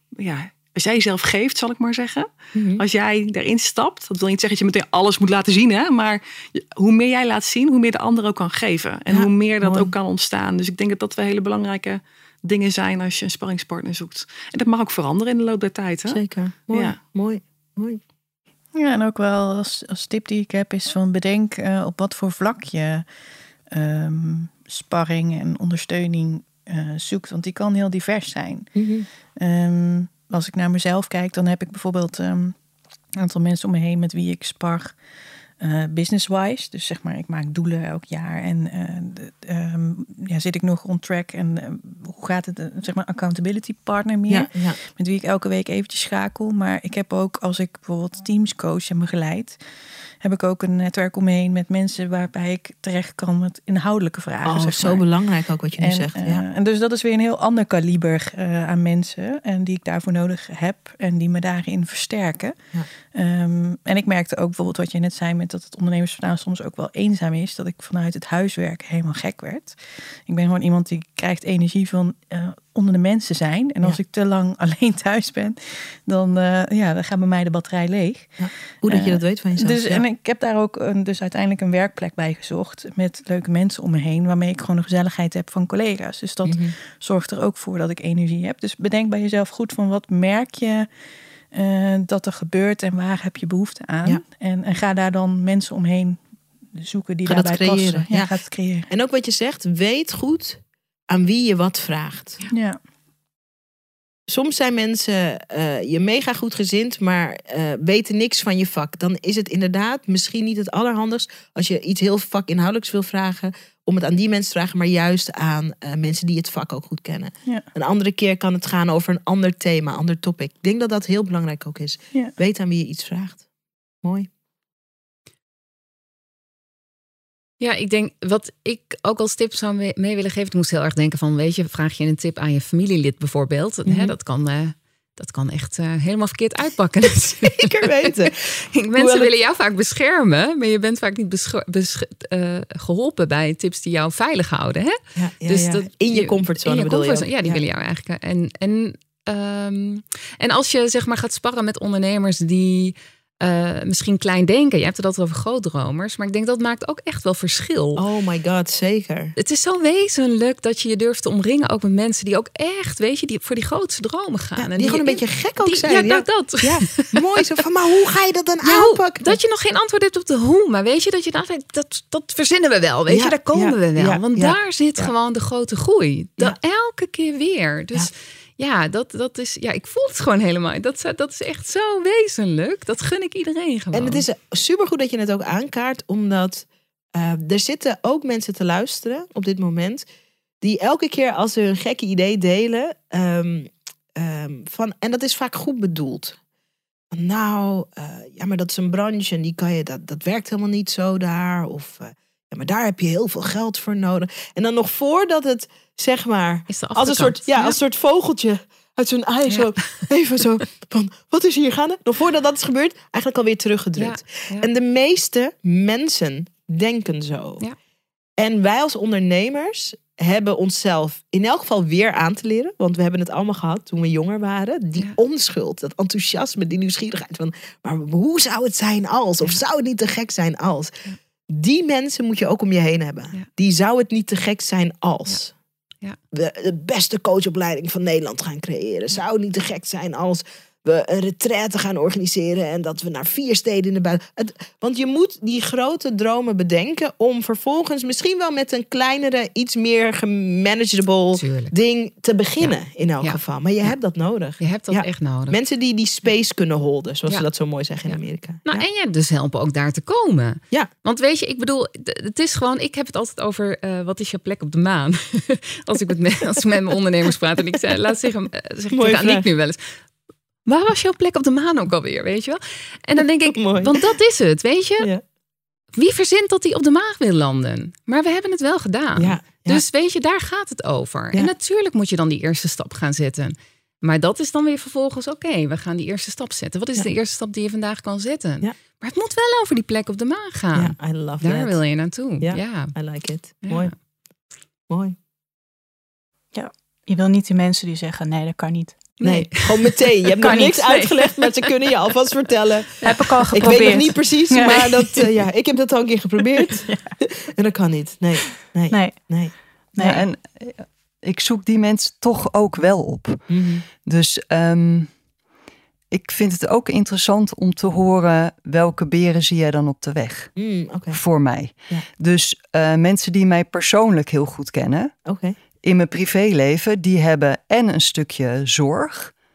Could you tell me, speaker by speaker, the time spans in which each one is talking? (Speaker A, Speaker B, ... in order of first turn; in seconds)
Speaker A: 0.2-17.0
Speaker B: 2.5-2.8, 9.1-9.9, 16.1-18.0, 28.8-29.1, 44.3-44.8, 54.5-56.4, 78.4-80.0, 86.5-86.7, 97.3-98.4, 98.9-102.4, 104.3-123.4, 124.0-124.3, 133.9-134.1, 137.4-138.3, 138.9-139.3, 145.2-147.6, 158.0-159.3, 164.6-169.4, 173.1-175.1, 183.9-190.1, 190.6-196.4, 197.1-217.6, 218.4-230.9, 231.5-235.5, 236.3-258.9, 268.9-269.5, 273.5-274.0, 279.2-279.8, 290.8-291.8, 292.4-293.9, 294.9-295.1, 299.2-309.5, 313.5-313.8, 320.6-321.2, 325.2-325.6
Speaker C: 18.8-23.1, 23.7-28.8, 29.4-32.5, 33.2-35.0, 35.6-49.6, 50.2-55.0, 55.8-62.6, 63.1-90.9, 91.5-96.2, 96.8-98.9, 102.5-102.8
Speaker D: 127.6-158.0, 159.4-167.2, 168.6-184.2, 206.7-207.8, 209.5-209.9, 214.0-214.7, 251.3-251.7, 252.6-253.9, 254.6-255.6, 258.1-269.8, 270.6-275.1, 275.9-293.0, 293.6-293.9, 299.2-300.0
Speaker E: 296.5-299.2, 300.4-301.4, 303.0-305.2, 308.9-310.2
Speaker F: 310.0-313.5, 314.0-315.1, 316.1-320.5, 321.1-325.1, 325.8-329.3